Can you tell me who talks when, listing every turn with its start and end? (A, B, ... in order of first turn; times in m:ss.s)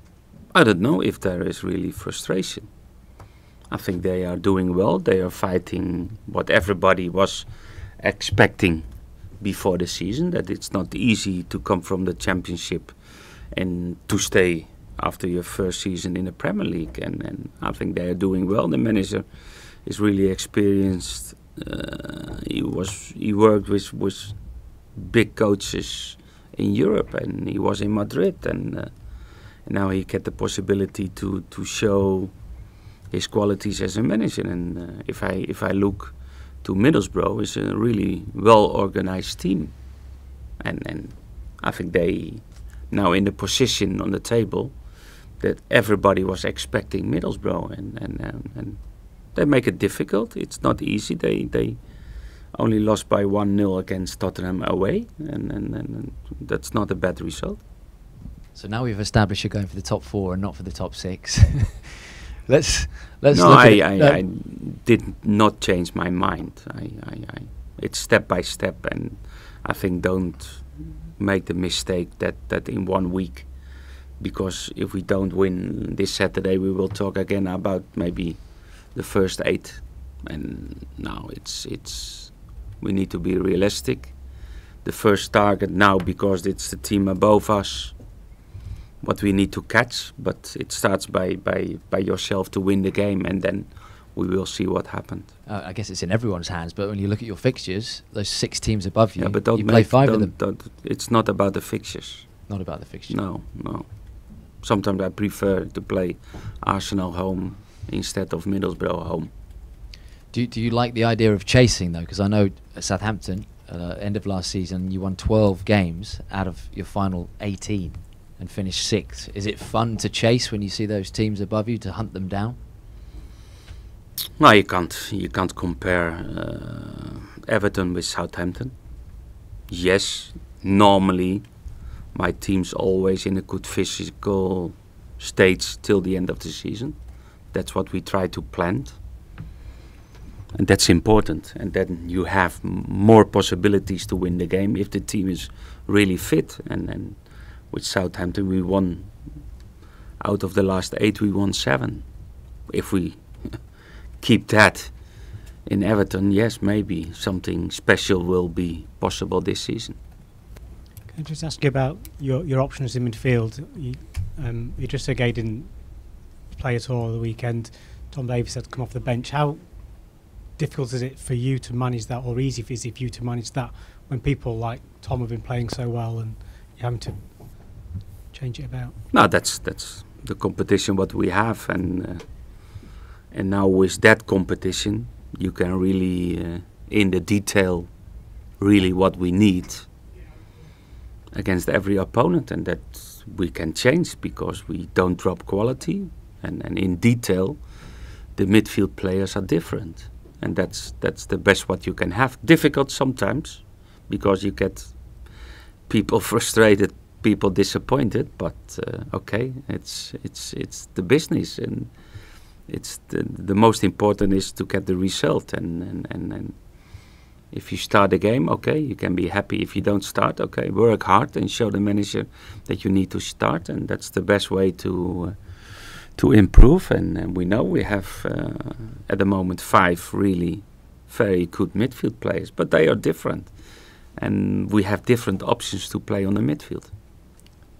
0:00.5-0:02.7 A
0:03.7-0:08.8 A
0:09.4-0:13.0 A
0:13.5-0:32.4 A
0:33.1-0:39.8 A
0:40.6-0:44.8 A
0:45.4-0:51.8 A
0:52.5-0:57.6 A
0:58.5-1:01.9 B
1:02.4-1:04.2 B
1:03.3-1:13.5 A
1:14.2-1:24.2 A
1:24.8-1:28.0 A
1:29.0-1:35.3 A
1:35.4-1:40.4 B
1:39.2-1:42.5 A
1:42.5-1:43.2 B
1:43.1-1:49.3 A
1:50.3-2:02.6 B
2:04.4-2:08.7 A
2:09.7-2:11.4 A
2:12.1-2:19.0 A
2:20.5-2:29.5 A
2:30.2-2:32.0 A
2:32.7-2:40.0 A
2:41.1-2:59.0 C
2:59.1-3:02.2 A
3:03.3-3:07.9 A
3:08.6-3:09.9 A
3:11.3-3:17.7 A
3:18.3-3:25.3 A
3:25.9-3:56.9 A